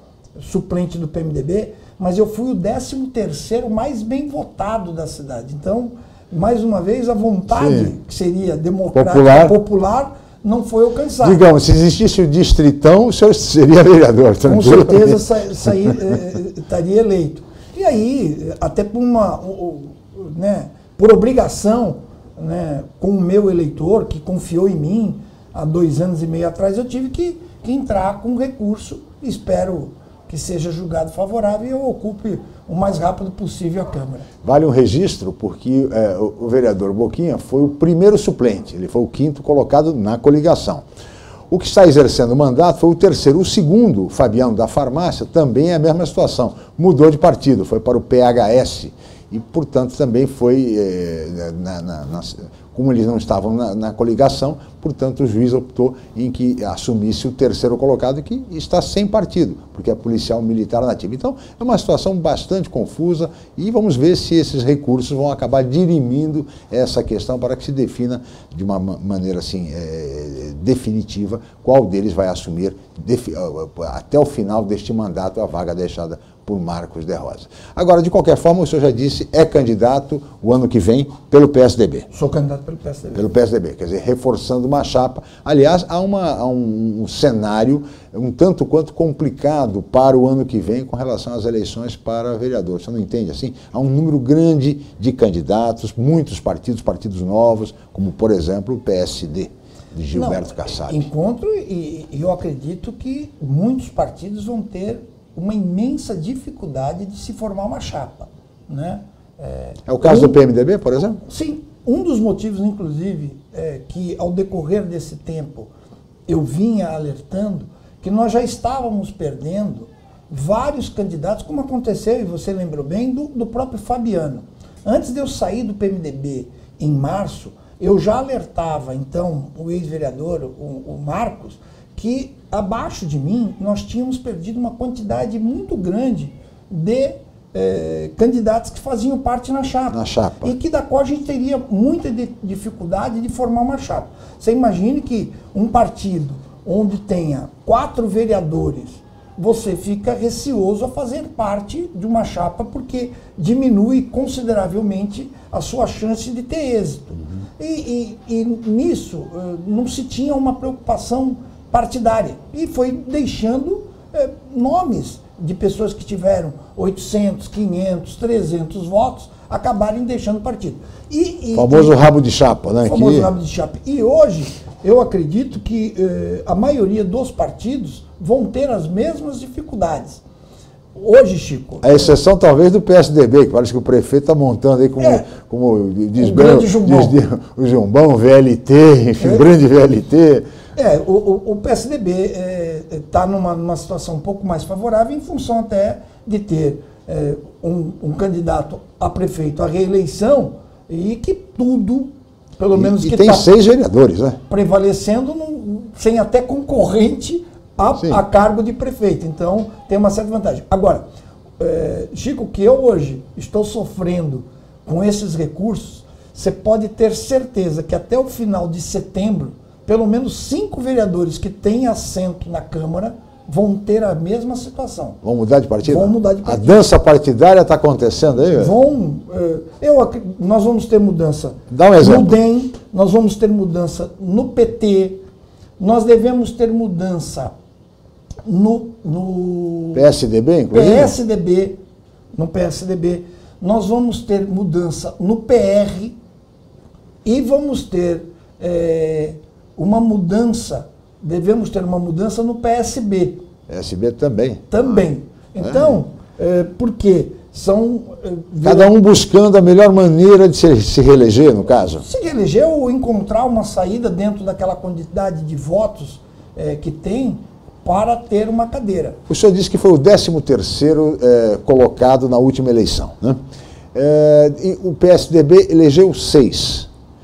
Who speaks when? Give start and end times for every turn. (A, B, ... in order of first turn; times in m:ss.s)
0:00.4-0:11.4 A
0:07.5-0:07.9 B
0:08.9-0:09.6 B
0:11.2-0:15.9 B
0:14.4-0:34.2 A
0:34.4-0:40.8 B
0:41.5-1:22.1 B
1:22.1-1:23.3 A
1:23.1-1:41.1 B
1:40.1-1:50.4 A
1:49.9-1:51.2 B
1:51.2-1:55.7 A
1:56.3-2:51.9 A
2:19.9-2:20.5 B
2:51.5-2:53.3 B
2:52.8-3:00.2 A
3:01.0-3:02.2 A
3:01.8-3:10.5 B
3:05.0-3:05.3 A
3:06.2-3:07.2 A
3:09.2-3:09.4 A
3:10.8-3:23.5 A
3:22.7-3:24.4 B
3:24.5-3:31.0 A
3:31.6-3:45.2 A
3:45.2-3:48.7 B
3:45.8-3:46.8 A
3:48.5-3:55.2 A
3:51.7-3:52.4 B
3:55.8-3:57.5 A
3:58.4-4:00.0 A
3:59.9-4:01.1 B
4:00.7-4:01.8 A
4:02.3-4:06.2 A
4:07.2-4:13.4 A
4:13.7-4:15.0 B
4:14.7-4:18.9 A
4:15.6-4:15.9 B
4:18.6-4:22.0 B
4:22.0-4:29.2 A
4:29.3-4:33.4 B
4:33.9-4:36.9 B